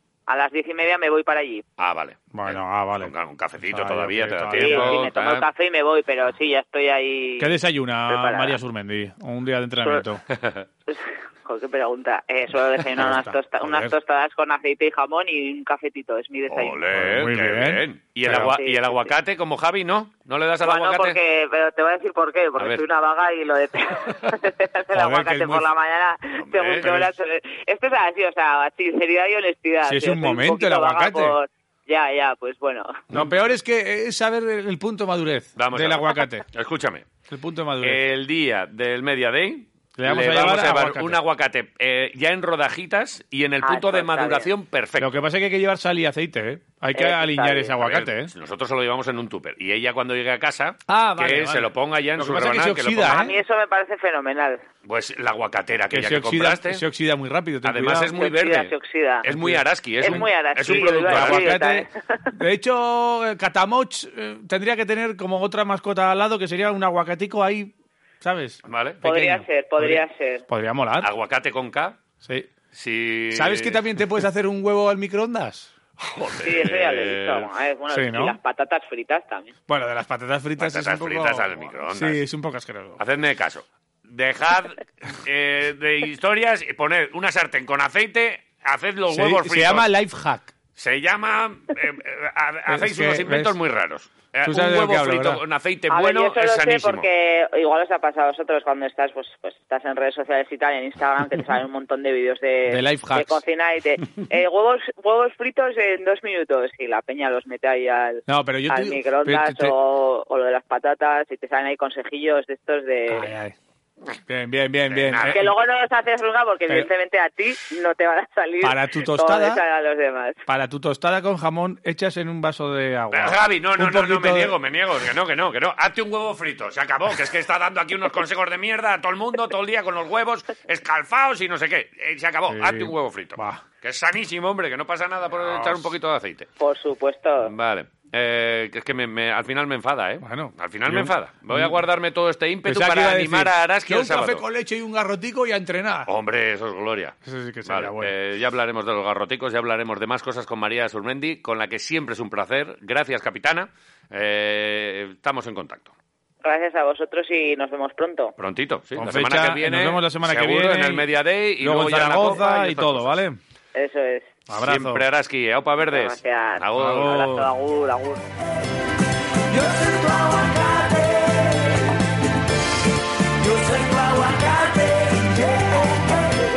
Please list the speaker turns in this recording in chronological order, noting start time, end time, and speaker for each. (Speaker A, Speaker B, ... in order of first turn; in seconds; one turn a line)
Speaker A: 0.3-1.6
Speaker B: 1.8-5.5
Speaker C: 2.3-3.1
Speaker C: 3.7-5.0
Speaker A: 4.5-7.5
Speaker C: 7.4-10.2
Speaker A: 8.1-8.6
Speaker A: 10.9-16.8
Speaker C: 13.0-13.9
Speaker B: 16.5-21.2
Speaker C: 16.9-18.5
Speaker A: 18.3-19.0
Speaker A: 20.6-33.0
Speaker B: 22.6-22.8
Speaker C: 24.9-25.7
Speaker B: 26.4-26.9
Speaker C: 26.8-27.1
Speaker C: 29.8-31.4
Speaker C: 33.1-36.5
Speaker B: 35.6-37.1
Speaker C: 37.3-38.0
Speaker B: 37.8-45.1
Speaker C: 40.0-41.2
Speaker A: 43.6-44.5
Speaker C: 45.0-48.3
Speaker A: 47.0-47.8
Speaker B: 47.8-53.2
Speaker C: 50.9-53.4
Speaker A: 53.1-54.6
Speaker B: 54.9-56.8
Speaker C: 55.9-58.1
Speaker B: 57.6-61.5
Speaker A: 58.1-59.3
Speaker C: 59.2-71.1
Speaker A: 60.0-62.3
Speaker B: 68.7-69.0
Speaker A: 69.0-70.5
Speaker B: 71.0-72.0
Speaker C: 72.2-72.5
Speaker B: 72.7-73.8
Speaker C: 73.3-75.7
Speaker B: 76.1-77.5
Speaker A: 76.4-79.5
Speaker C: 77.9-78.4
Speaker C: 79.7-83.0
Speaker B: 80.6-82.2
Speaker B: 83.0-89.9
Speaker C: 89.1-90.5
Speaker B: 90.8-97.1
Speaker C: 92.7-93.6
Speaker C: 94.5-95.4
Speaker A: 95.9-113.3
Speaker C: 102.7-103.4
Speaker C: 108.3-109.8
Speaker C: 113.1-113.5
Speaker C: 114.3-115.5
Speaker B: 114.9-115.5
Speaker A: 115.3-120.4
Speaker C: 118.6-119.6
Speaker C: 120.5-124.6
Speaker B: 123.1-136.5
Speaker C: 132.5-133.6
Speaker C: 135.4-135.9
Speaker A: 136.6-137.5
Speaker B: 137.4-144.4
Speaker C: 140.2-141.8
Speaker C: 142.7-146.1
Speaker B: 146.1-155.9
Speaker C: 147.2-148.2
Speaker A: 156.4-158.3
Speaker B: 158.4-163.2
Speaker C: 158.9-163.4
Speaker A: 163.8-164.3
Speaker C: 164.5-165.0
Speaker B: 164.6-167.1
Speaker A: 165.8-168.3
Speaker C: 166.8-167.5
Speaker D: 169.6-171.3
Speaker D: 173.5-175.2